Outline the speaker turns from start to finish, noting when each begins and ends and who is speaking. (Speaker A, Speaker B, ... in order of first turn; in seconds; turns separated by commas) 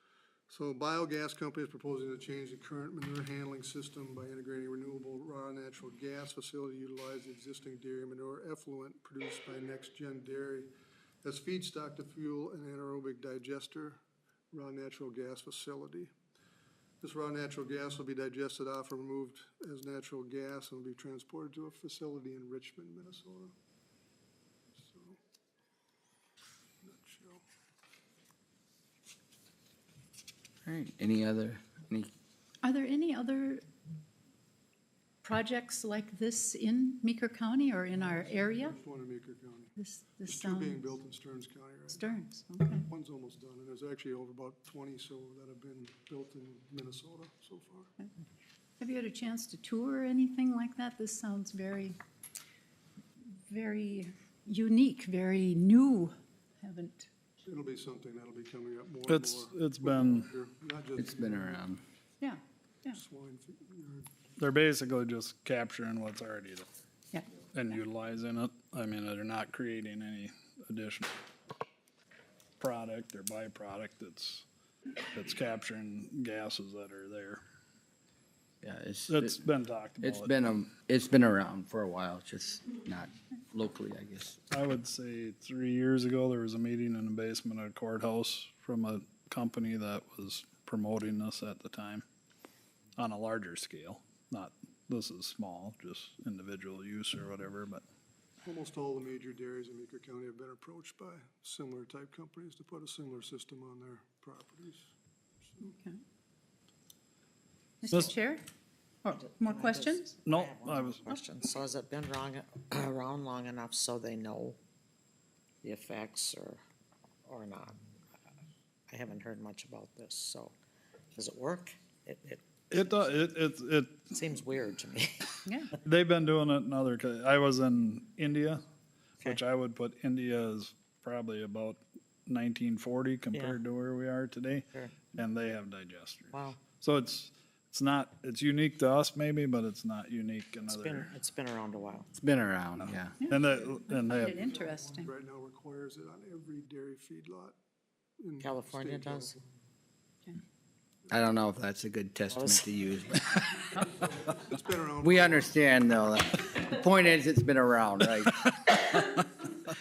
Speaker A: 0.5-10.7, Speaker A: 11.2-14.0, Speaker A: 14.5-16.1, Speaker A: 17.0-23.5, Speaker A: 24.8-25.2, Speaker A: 26.8-27.4, Speaker B: 30.6-32.1, Speaker C: 32.6-33.6, Speaker C: 35.2-38.8, Speaker A: 38.0-39.8, Speaker C: 39.8-40.8, Speaker A: 40.3-47.9, Speaker C: 41.9-42.9, Speaker C: 48.8-52.0, Speaker C: 53.2-57.1, Speaker A: 57.4-61.7, Speaker D: 59.1-60.3, Speaker B: 61.0-61.8, Speaker C: 62.2-63.0, Speaker A: 62.9-64.1, Speaker D: 64.4-66.7, Speaker D: 67.5-71.1, Speaker D: 72.6-74.5, Speaker D: 75.1-77.4, Speaker B: 78.6-79.4, Speaker D: 79.1-80.3, Speaker B: 80.0-84.4, Speaker D: 84.5-92.0, Speaker D: 93.0-97.8, Speaker A: 98.4-104.9, Speaker C: 105.6-106.0, Speaker C: 107.8-108.5, Speaker D: 107.9-108.2, Speaker C: 109.0-110.1, Speaker E: 109.1-114.6, Speaker D: 110.2-111.1, Speaker E: 115.6-116.6, Speaker E: 117.2-117.8, Speaker E: 118.9-120.5, Speaker E: 121.1-123.2, Speaker D: 122.7-124.1, Speaker E: 124.0-125.5, Speaker D: 125.8-128.6, Speaker D: 129.2-141.1, Speaker E: 133.3-133.6, Speaker E: 134.7-135.0, Speaker E: 136.3-136.6, Speaker E: 140.7-142.1, Speaker B: 142.2-143.2, Speaker D: 142.8-144.5, Speaker C: 143.2-145.1, Speaker A: 144.4-147.6, Speaker A: 148.2-149.4, Speaker E: 148.4-149.4, Speaker B: 151.1-153.9, Speaker E: 152.3-152.7, Speaker A: 154.0-155.6, Speaker B: 155.0-159.2